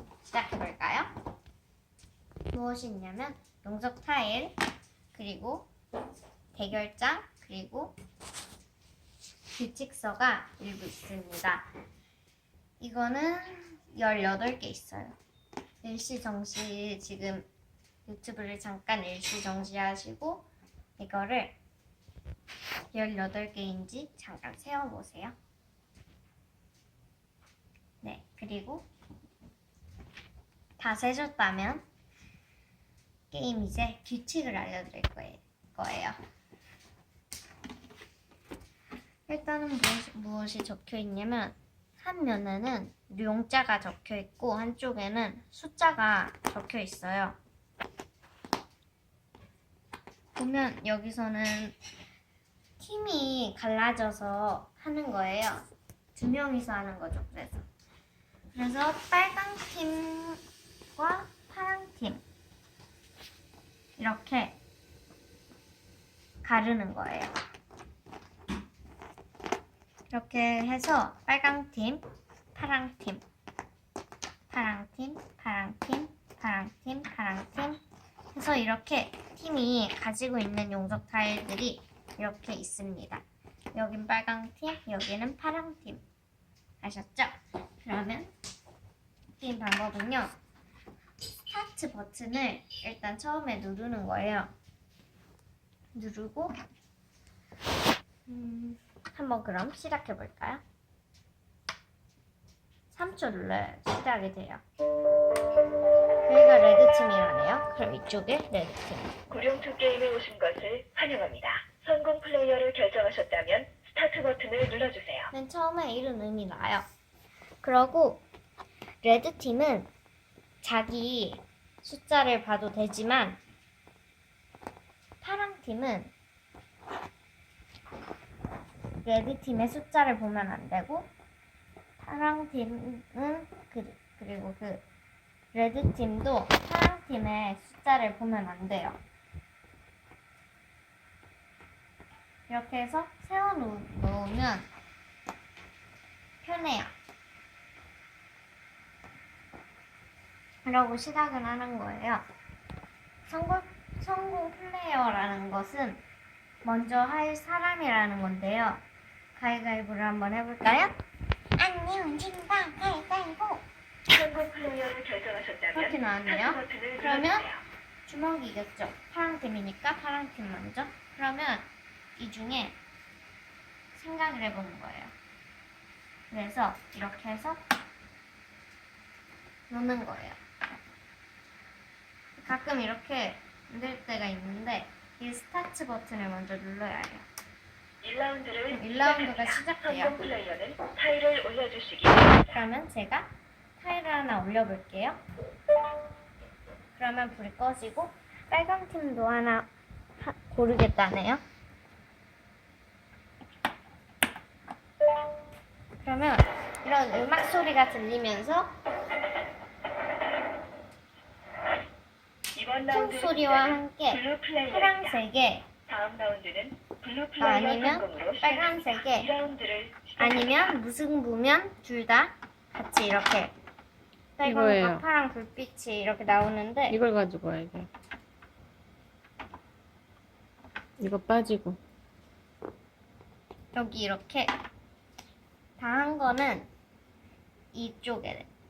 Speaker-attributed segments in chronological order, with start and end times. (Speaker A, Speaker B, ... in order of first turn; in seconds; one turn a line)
Speaker A: 0.2-1.1
Speaker A: 2.5-4.5
Speaker A: 5.1-5.7
Speaker A: 6.5-7.9
Speaker A: 9.5-11.6
Speaker A: 12.8-15.1
Speaker A: 15.8-17.5
Speaker A: 18.1-20.4
Speaker A: 21.0-21.5
Speaker A: 22.9-25.3
Speaker A: 28.0-28.9
Speaker A: 30.8-31.8
Speaker A: 33.3-36.2
Speaker A: 39.3-47.4
Speaker A: 50.3-51.8
Speaker A: 52.8-57.6
Speaker A: 58.5-60.4
Speaker A: 61.0-62.2
Speaker A: 64.0-64.5
Speaker A: 66.4-67.3
Speaker A: 70.1-72.0
Speaker A: 72.5-73.2
Speaker A: 74.5-77.8
Speaker A: 78.3-86.0
Speaker A: 86.8-88.3
Speaker A: 89.4-90.3
Speaker A: 91.5-94.5
Speaker A: 95.9-96.5
Speaker A: 98.3-100.6
Speaker A: 102.9-104.6
Speaker A: 106.2-109.2
Speaker B: 109.3-115.3
Speaker A: 115.3-116.8
Speaker A: 117.6-118.2
Speaker A: 119.0-119.9
Speaker A: 120.6-123.4
Speaker A: 125.2-126.1
Speaker A: 129.0-131.1
Speaker A: 132.0-134.8
Speaker A: 135.5-139.0
Speaker A: 142.5-144.7
Speaker A: 146.4-146.9
Speaker A: 150.6-152.2
Speaker A: 153.3-156.0
Speaker A: 156.6-158.8
Speaker A: 159.3-160.9
Speaker A: 161.6-163.6
Speaker B: 164.1-167.6
Speaker A: 165.7-167.5
Speaker A: 168.1-172.8
Speaker A: 173.9-175.1
Speaker A: 176.3-177.6
Speaker A: 179.7-180.4
Speaker A: 182.4-187.3
Speaker B: 188.0-192.6
Speaker A: 188.7-190.3
Speaker A: 192.5-195.2
Speaker A: 196.9-199.7
Speaker A: 200.2-201.4
Speaker A: 206.0-208.7
Speaker B: 212.5-215.2
Speaker A: 212.9-215.7
Speaker B: 215.9-220.8
Speaker A: 217.4-219.3
Speaker A: 220.2-223.5
Speaker A: 224.4-227.0
Speaker C: 224.4-225.0
Speaker C: 226.9-227.9
Speaker C: 231.0-231.8
Speaker A: 233.7-234.5
Speaker A: 235.8-236.7
Speaker A: 237.7-238.5